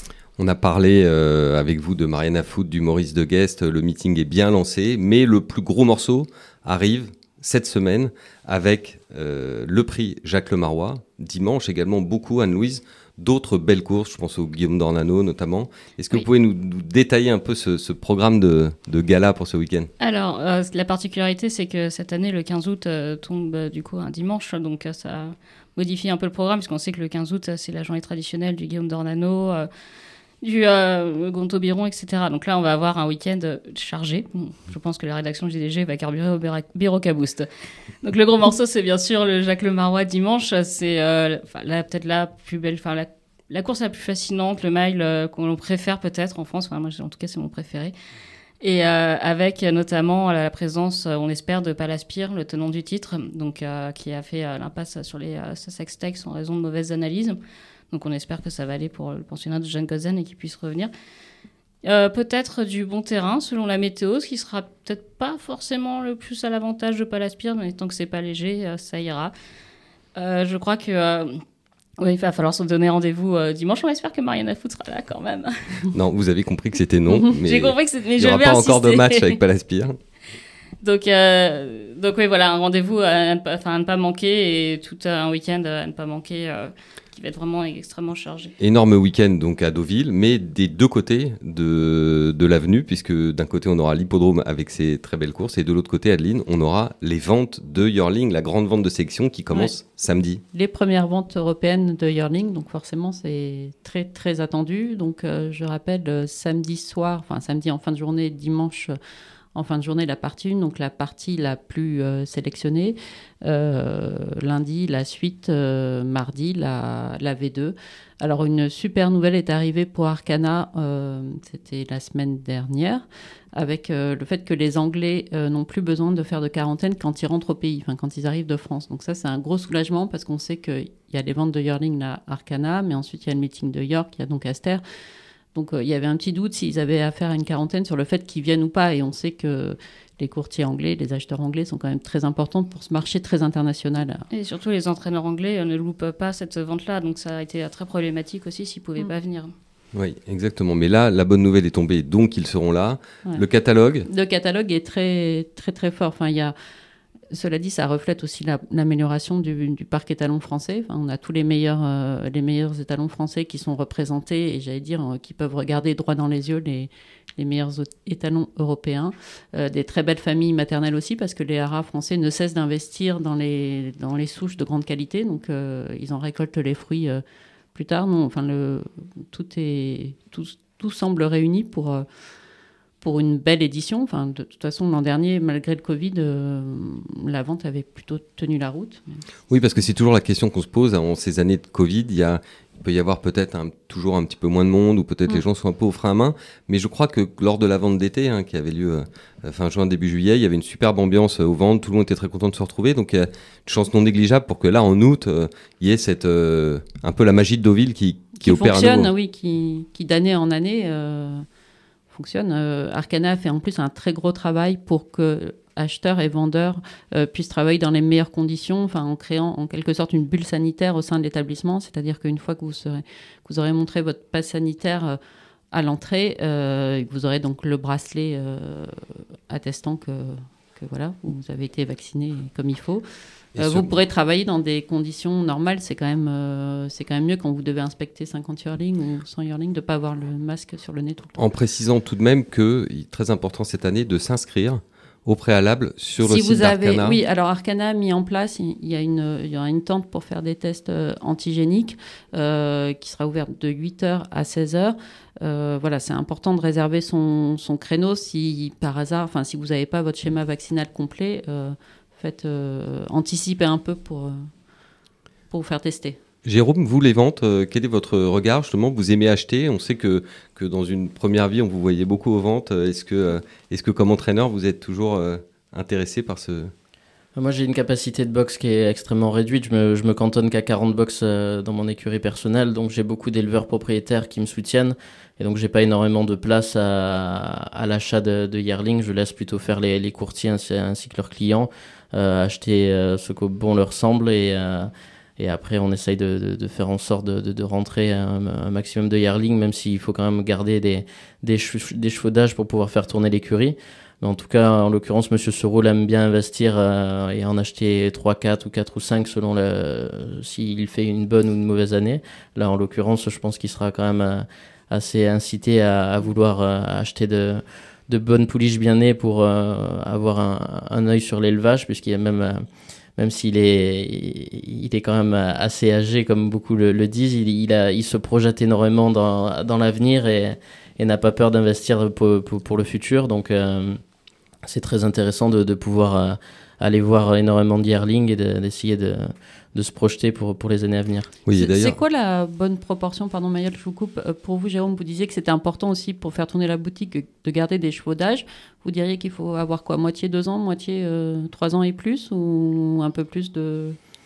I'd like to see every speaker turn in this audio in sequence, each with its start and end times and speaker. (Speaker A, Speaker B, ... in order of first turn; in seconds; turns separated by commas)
Speaker A: 0.4-19.9, Speaker B: 20.0-29.7, Speaker B: 30.4-37.5, Speaker B: 38.0-47.9, Speaker B: 48.6-57.4, Speaker B: 57.9-60.9, Speaker B: 61.8-69.3, Speaker B: 70.2-71.4, Speaker B: 72.0-75.9, Speaker A: 75.9-80.0, Speaker B: 77.1-79.4, Speaker B: 80.8-88.5, Speaker A: 88.6-100.4, Speaker C: 100.5-109.0, Speaker C: 109.5-134.8, Speaker C: 135.5-144.2, Speaker B: 144.3-149.5, Speaker A: 149.9-154.1, Speaker C: 154.1-156.5, Speaker C: 157.3-177.2, Speaker C: 177.7-182.0, Speaker C: 183.0-189.2, Speaker A: 189.5-209.1, Speaker C: 208.4-211.4, Speaker C: 212.1-225.2, Speaker C: 225.7-233.0, Speaker A: 233.5-233.9, Speaker C: 233.6-241.4, Speaker A: 241.4-247.2, Speaker C: 246.2-264.5, Speaker C: 265.5-266.2, Speaker A: 266.4-276.7, Speaker D: 277.3-322.6, Speaker D: 323.2-334.0, Speaker D: 334.7-341.3, Speaker A: 341.4-341.9, Speaker C: 341.5-354.0